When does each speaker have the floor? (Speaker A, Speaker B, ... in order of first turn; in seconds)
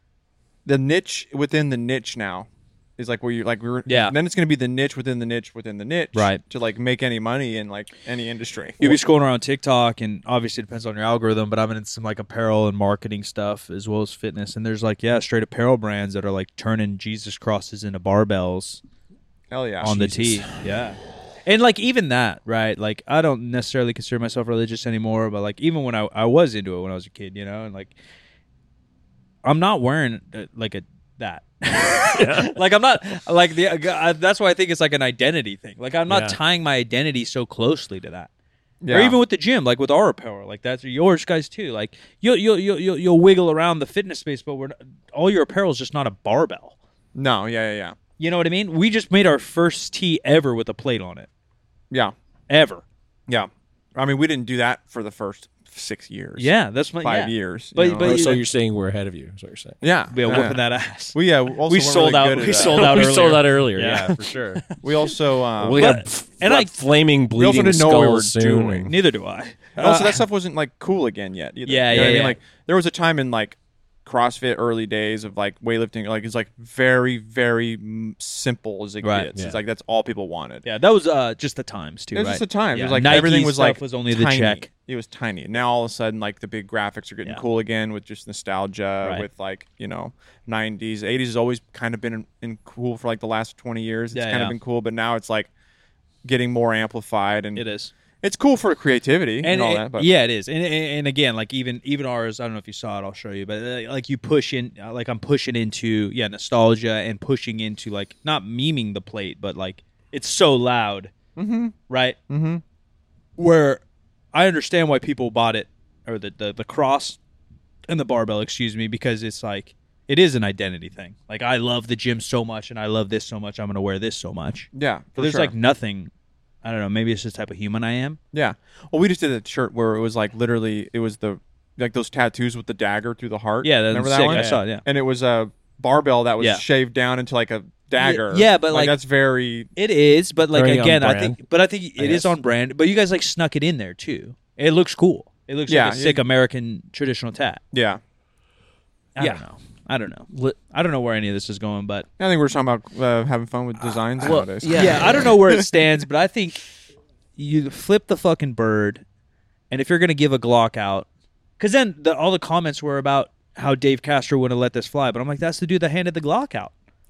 Speaker A: 0.7-9.0, 19.5-20.4, 38.8-39.1, 47.1-48.0, 53.3-56.5, 57.0-58.4, 59.8-60.6, 61.1-63.2, 64.8-65.9, 67.4-68.9, 69.8-80.6, 82.1-95.5, 96.2-97.6, 98.2-100.1, 111.3-111.8, 112.3-112.6, 124.7-125.5, 128.3-139.7, 145.7-146.2, 147.7-148.0, 152.2-155.6
Speaker B: 3.9-4.1, 6.1-6.4, 8.8-18.8, 19.8-27.9, 29.4-38.3, 38.9-46.8, 48.2-51.3, 52.5-52.8, 56.4-58.4, 60.1-64.8, 65.8-66.7, 68.9-70.2, 71.7-72.4, 79.0-79.3, 80.6-84.7, 94.1-94.5, 97.5-97.9, 99.4-111.1, 111.9-112.2, 113.4-113.8, 114.3-117.2, 117.9-126.1, 126.6-128.2, 133.6-134.8, 138.0-139.0, 139.8-147.6, 149.2-152.1, 154.7-156.6, 157.4-159.0, 159.7-161.1, 161.6-166.7
Speaker C: 32.1-32.5, 36.1-36.4, 58.0-59.8, 62.5-64.6, 65.6-68.9, 134.3-134.6, 140.5-141.4, 142.0-142.3, 149.2-149.4, 150.3-150.6, 154.2-155.4